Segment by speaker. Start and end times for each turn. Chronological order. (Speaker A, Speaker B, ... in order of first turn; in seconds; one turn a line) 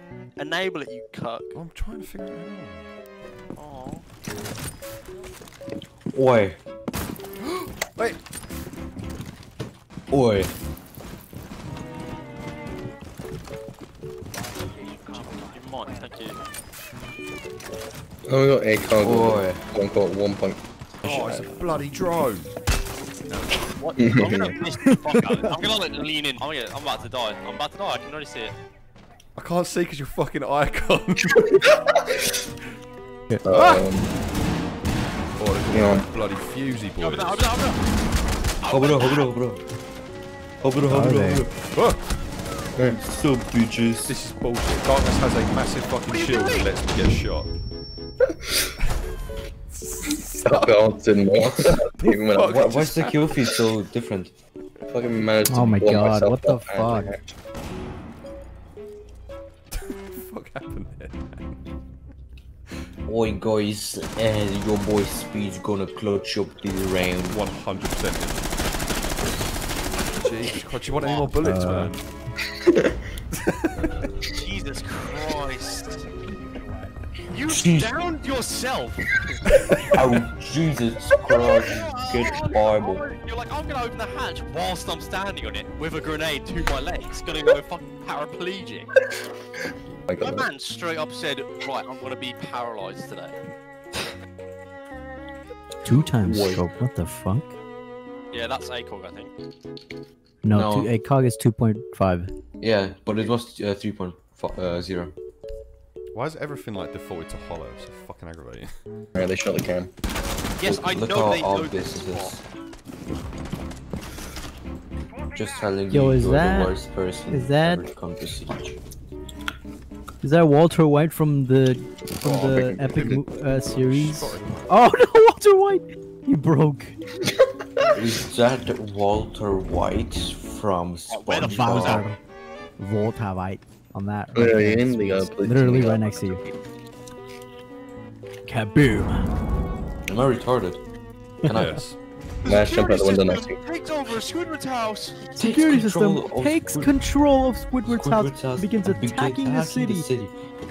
Speaker A: 0.4-1.5
Speaker B: 1.5-2.9
Speaker A: 3.6-4.0
Speaker C: 6.1-6.6
Speaker B: 7.4-8.2
Speaker C: 10.1-10.5
Speaker A: 15.1-16.4
Speaker D: 18.3-21.5
Speaker C: 19.0-19.6
Speaker B: 21.0-22.5
Speaker A: 23.3-28.6
Speaker D: 24.0-24.6
Speaker B: 29.4-31.5
Speaker D: 31.5-32.3
Speaker D: 33.5-34.1
Speaker B: 33.5-33.9
Speaker B: 35.4-37.5
Speaker D: 35.7-36.1
Speaker A: 37.0-37.8
Speaker A: 38.6-39.3
Speaker C: 38.7-39.6
Speaker C: 40.6-41.5
Speaker E: 40.9-41.4
Speaker B: 41.7-42.0
Speaker C: 42.9-44.2
Speaker B: 44.1-47.5
Speaker A: 46.1-46.7
Speaker B: 49.7-50.7
Speaker D: 50.4-52.9
Speaker B: 52.0-53.3
Speaker C: 52.5-54.3
Speaker D: 54.9-57.2
Speaker E: 55.5-57.2
Speaker B: 59.7-61.6
Speaker C: 63.1-67.4
Speaker B: 67.3-68.5
Speaker B: 70.1-72.0
Speaker A: 71.0-71.3
Speaker E: 71.4-72.0
Speaker D: 72.6-73.0
Speaker B: 73.5-73.9
Speaker A: 74.4-76.1
Speaker A: 77.3-79.2
Speaker C: 77.5-78.0
Speaker C: 79.9-83.0
Speaker A: 81.4-88.9
Speaker D: 90.1-90.5
Speaker A: 90.2-93.4
Speaker E: 95.8-97.5
Speaker C: 96.2-96.6
Speaker A: 98.3-99.3
Speaker E: 100.4-102.3
Speaker C: 100.5-100.9
Speaker C: 102.6-105.1
Speaker B: 106.1-108.7
Speaker D: 109.1-109.9
Speaker A: 110.6-112.3
Speaker C: 110.6-112.5
Speaker C: 115.3-118.8
Speaker E: 115.9-116.8
Speaker E: 117.3-117.9
Speaker E: 120.2-127.0
Speaker D: 122.3-123.2
Speaker B: 123.6-124.6
Speaker C: 127.9-132.1
Speaker A: 131.1-132.1
Speaker E: 131.4-132.2
Speaker E: 132.8-136.4
Speaker D: 134.3-136.6
Speaker E: 138.5-139.2
Speaker C: 140.1-140.8
Speaker C: 141.4-141.8
Speaker B: 141.5-142.0
Speaker D: 142.4-143.6
Speaker A: 142.4-145.3
Speaker C: 145.3-147.0
Speaker E: 145.4-150.1
Speaker C: 147.8-150.4